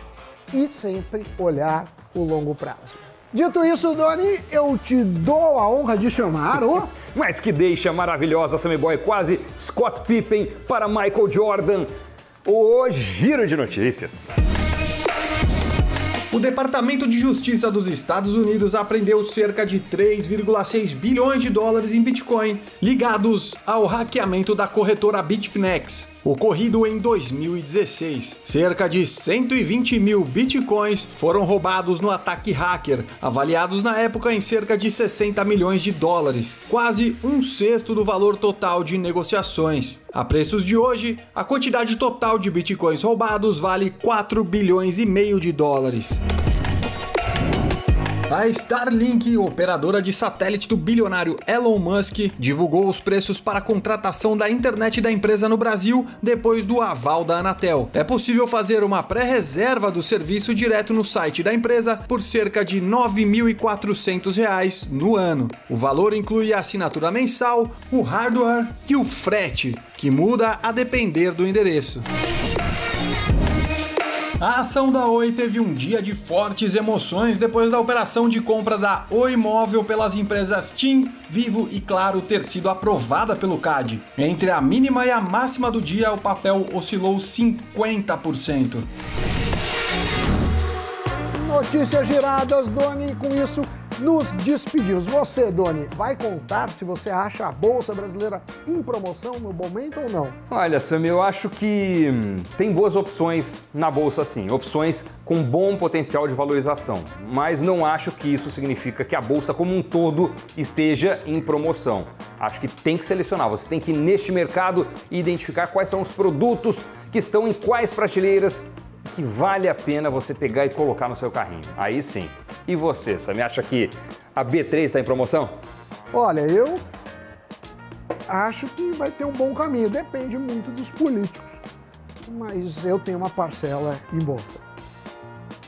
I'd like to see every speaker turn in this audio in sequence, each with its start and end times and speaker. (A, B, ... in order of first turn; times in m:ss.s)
0:00.5-0:06.9 A
0:07.1-0:11.9 B
0:12.5-0:14.3 B
0:16.3-0:46.2 C
0:48.3-1:12.1 C
1:14.4-1:28.9 C
1:31.3-1:40.4 A
1:40.5-2:05.5 B
2:06.1-2:06.8 A
2:08.3-2:11.6 A
2:12.2-2:14.6 A